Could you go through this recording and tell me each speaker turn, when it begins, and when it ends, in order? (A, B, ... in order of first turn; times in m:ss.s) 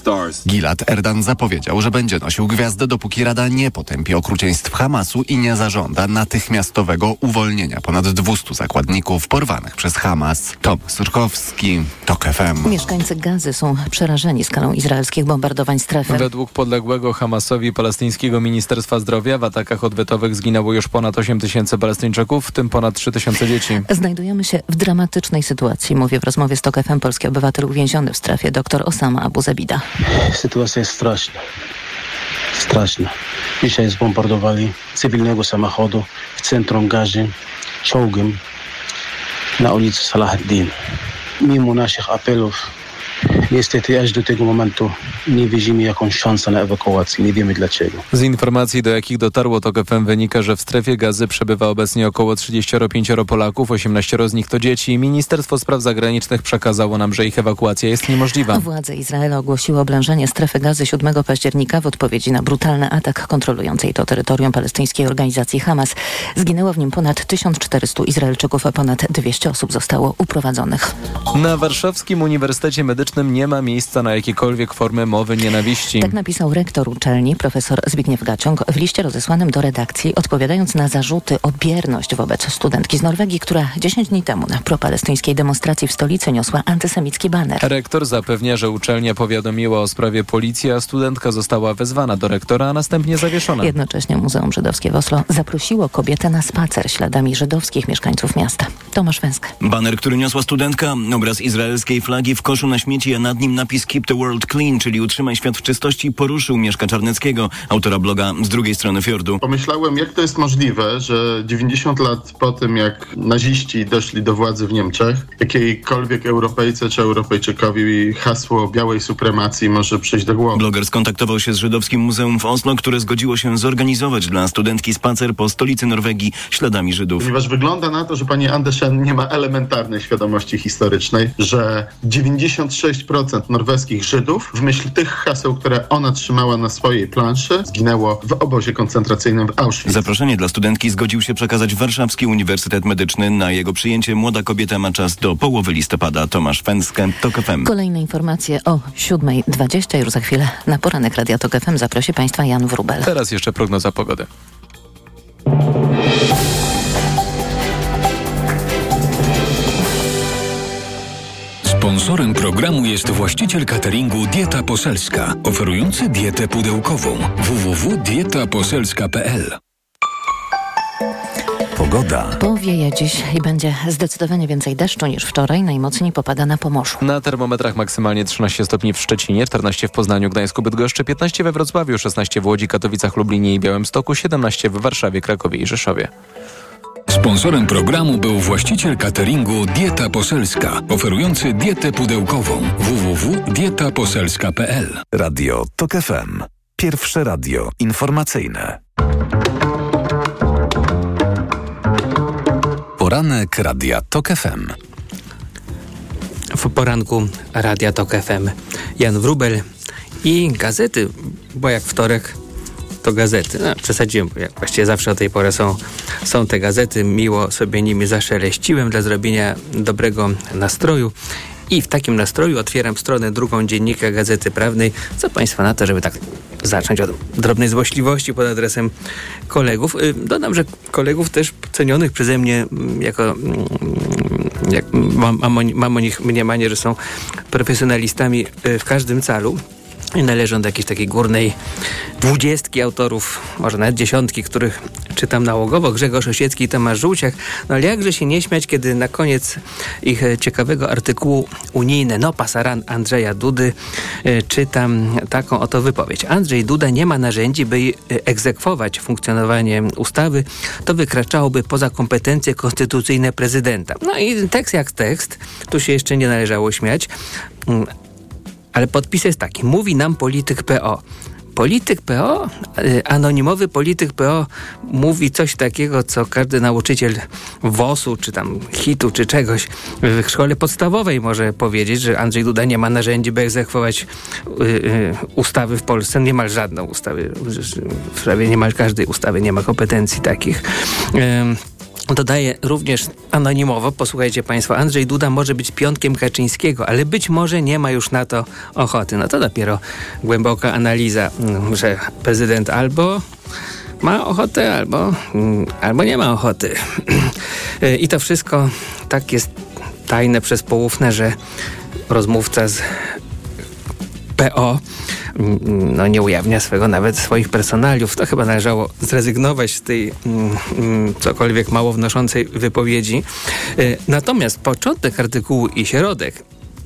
0:00.4-0:12.8 A
0:12.6-0:16.3 B
0:16.1-0:23.8 C
0:23.9-0:29.8 B
0:30.1-0:31.4 D
0:32.5-0:37.3 D
0:37.8-0:38.4 D
0:39.6-0:40.7 D
0:41.4-0:42.6 D
0:43.5-0:48.0 D
0:48.1-0:58.6 C
0:58.5-1:10.9 B
1:11.3-1:16.1 C
1:16.0-1:27.6 B
1:27.6-1:33.7 C
1:33.6-1:39.5 B
1:39.6-1:49.4 E
1:49.4-2:00.6 F
2:00.5-2:07.2 E
2:07.2-2:20.0 F
2:19.8-2:27.7 E
2:27.6-2:33.1 B
2:33.0-2:34.3 C
2:41.6-2:49.6 G
2:51.7-2:52.4 H
2:52.4-2:57.0 B
2:57.0-3:06.1 C
3:07.1-3:15.0 G
3:15.1-3:18.8 H
3:23.0-3:24.7 H
3:26.5-3:29.6 I
3:30.2-3:32.4 I
3:33.0-3:41.1 I
3:41.7-3:48.9 I
3:49.5-3:57.0 I
3:57.5-3:59.6 I
4:00.1-4:01.6 I
4:02.2-4:27.1 I
4:27.6-4:27.9 I
4:28.7-4:31.0 I
4:31.5-5:03.2 I
5:04.0-5:09.5 I
5:10.1-5:11.4 I
5:12.1-5:13.2 I
5:14.4-5:14.8 I
5:15.3-5:26.4 I